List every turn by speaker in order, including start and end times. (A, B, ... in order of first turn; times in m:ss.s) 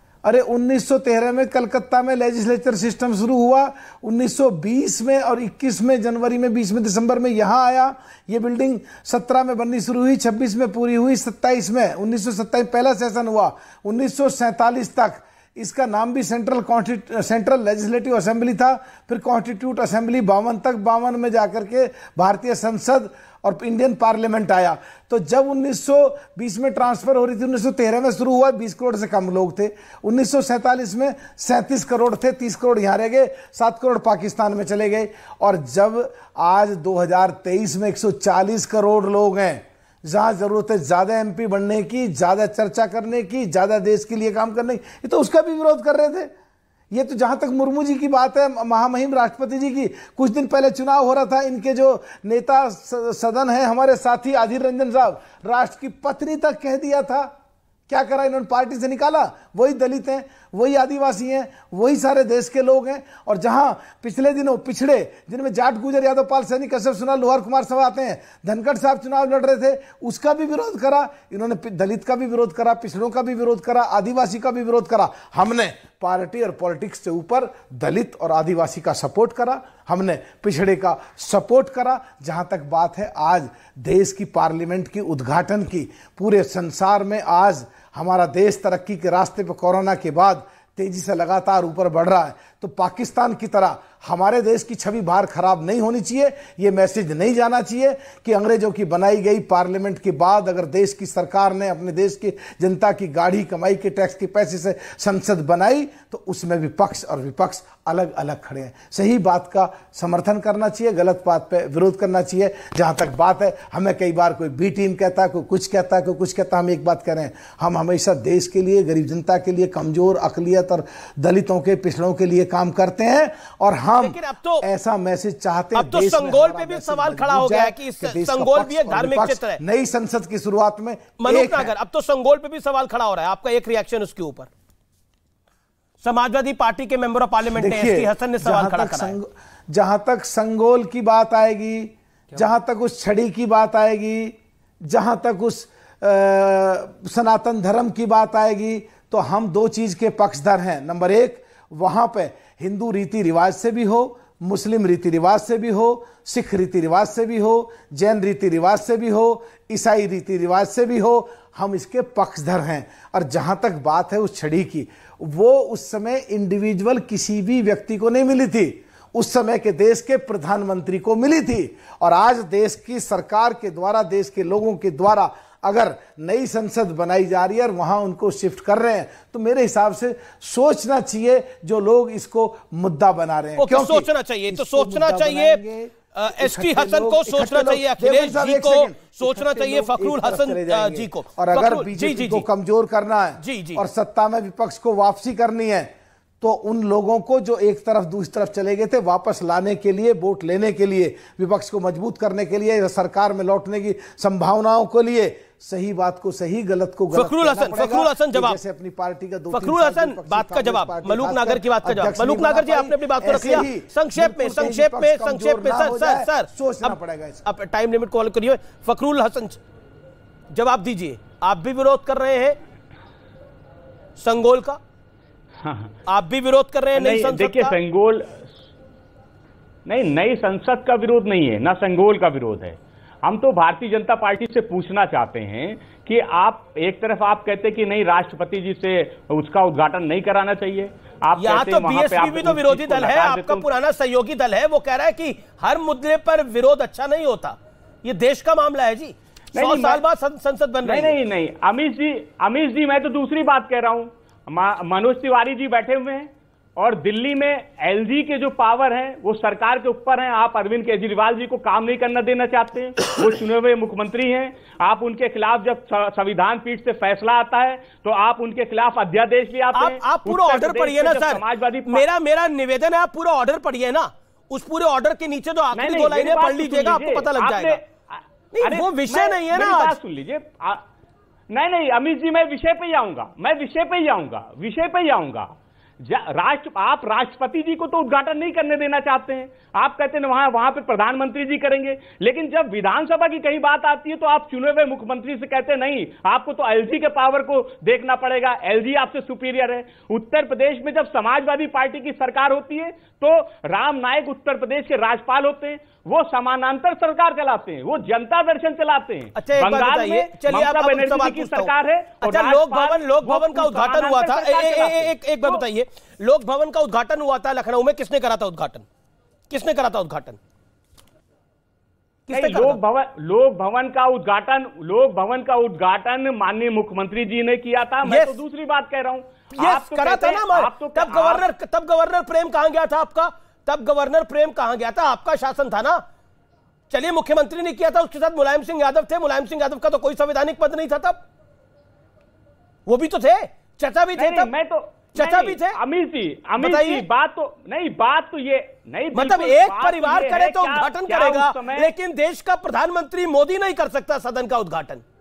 0:00.2-0:46.3 A
0:46.9-0:57.3 A
0:57.9-2:11.7 A
2:04.0-2:04.6 B
2:05.8-2:09.6 B
2:11.2-2:14.5 B
2:16.0-2:19.2 B
2:17.6-3:37.4 A
3:03.6-3:05.6 B
3:06.1-3:12.5 B
3:13.4-3:13.8 B
3:27.1-3:28.6 B
3:29.5-3:39.6 B
3:40.5-3:42.6 B
3:44.2-3:44.8 B
3:45.6-3:45.9 C
3:46.1-3:47.8 B
3:46.9-3:48.3 C
3:49.9-4:03.7 C
4:01.4-4:11.2 B
4:09.6-4:10.0 C
4:10.8-4:32.1 C
4:29.7-4:37.8 B
4:35.7-4:40.8 C
4:38.5-4:40.0 B
4:41.5-4:45.5 C
4:46.1-5:15.6 C
5:09.4-5:18.9 B
5:19.5-5:20.4 B
5:22.3-5:22.8 B
5:22.3-5:31.5 C
5:28.0-5:28.4 B
5:29.5-5:36.0 B
5:36.9-5:41.2 B
5:42.9-5:44.5 B
5:44.2-5:51.9 C
5:45.2-5:45.8 B
5:46.6-5:47.0 B
5:49.1-5:55.0 B